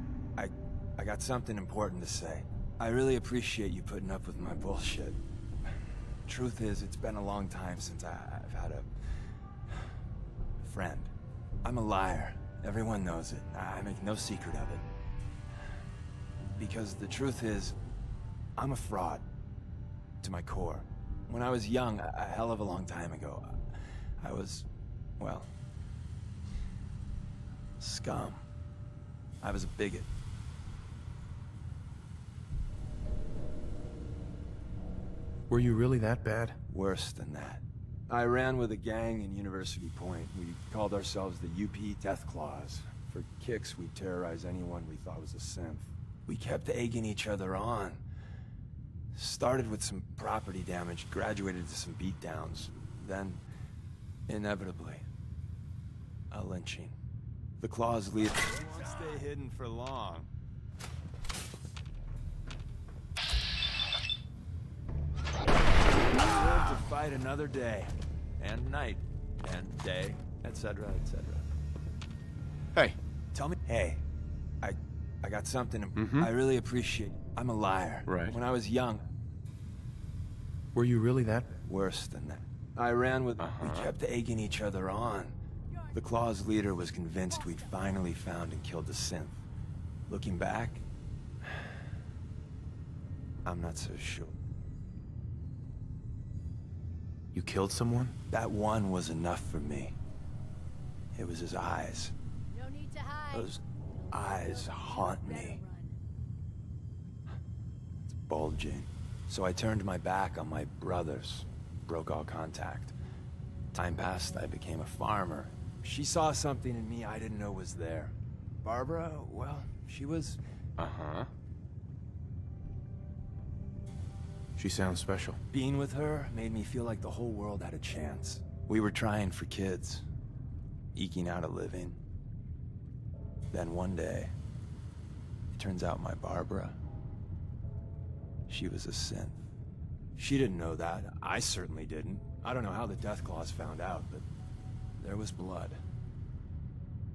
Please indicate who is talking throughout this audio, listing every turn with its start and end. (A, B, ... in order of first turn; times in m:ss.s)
0:00.4-0:05.2 A
0:06.3-0:08.9 A
0:10.6-0:11.1 A
0:11.6-0:14.8 A
0:16.6-0:17.7 A
0:18.6-0:19.2 A
0:20.2-0:23.6 A
0:24.2-0:24.7 A
0:25.2-0:25.5 A
0:27.8-0:28.4 A
0:29.4-0:30.1 A
0:35.5-0:36.6 B
0:36.7-0:48.0 A
0:49.1-0:53.4 A
0:54.3-0:55.0 A
0:56.3-0:57.0 A
0:57.6-1:00.3 A
1:06.0-1:11.4 A
1:13.3-1:14.0 A
1:14.6-1:19.0 A
1:16.0-1:16.3 B
1:18.1-1:18.4 B
1:20.7-1:21.5 B
1:21.6-1:25.3 A
1:23.4-1:23.9 B
1:25.7-1:26.0 C
1:25.9-1:29.4 A
1:27.3-1:28.0 C
1:30.1-1:30.8 A
1:31.4-1:31.7 A
1:33.4-1:34.4 A
1:37.3-1:38.2 B
1:38.3-1:40.0 A
1:41.1-1:42.1 A
1:42.5-1:43.5 C
1:43.3-1:45.6 A
1:44.3-1:45.9 C
1:48.0-1:52.9 A
1:53.7-2:00.4 A
2:00.8-2:01.3 B
2:04.6-2:05.4 B
2:05.5-2:10.0 A
2:10.9-2:12.0 A
2:13.5-2:14.3 A
2:15.5-2:16.8 A
2:18.5-2:19.4 A
2:20.2-2:24.3 A
2:25.0-2:25.8 A